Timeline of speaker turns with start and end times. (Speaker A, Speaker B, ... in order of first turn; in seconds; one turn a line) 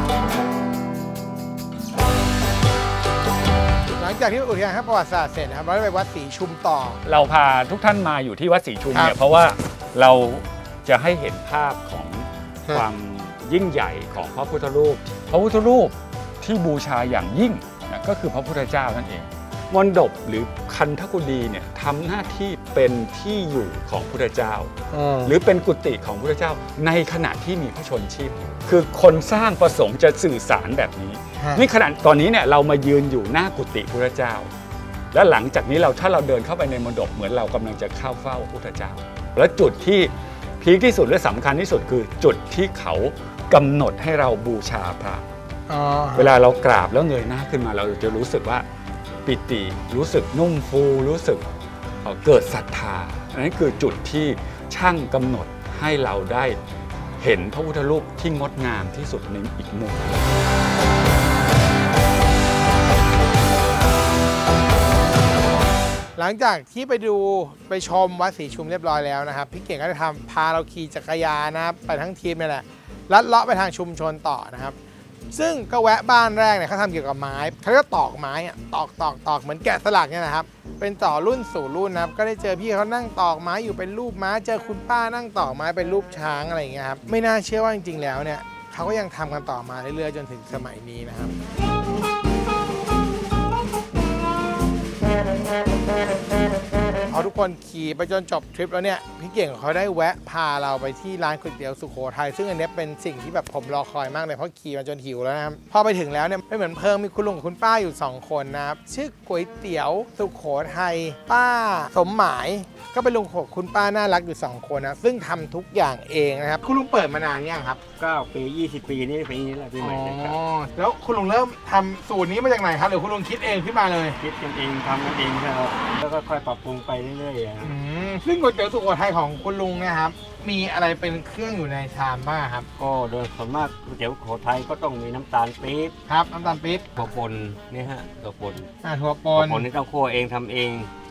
Speaker A: 3.9-7.0
Speaker B: 7.0-24.7
Speaker A: 24.9-25.4
Speaker B: 25.2-34.5
Speaker A: 31.4-31.7
Speaker B: 35.1-45.2
Speaker A: 45.7-46.4
Speaker B: 46.1-48.6
Speaker B: 49.2-51.5
Speaker B: 52.0-56.6
Speaker B: 57.2-60.3
Speaker A: 66.2-74.8
Speaker A: 75.3-91.4
Speaker A: 97.1-117.8
Speaker C: 118.0-120.4
Speaker A: 119.8-124.2
Speaker C: 124.2-127.8
Speaker A: 127.6-132.7
Speaker C: 132.8-135.9
Speaker A: 136.1-137.1
Speaker C: 137.0-138.7
Speaker A: 138.8-139.7
Speaker C: 139.4-140.9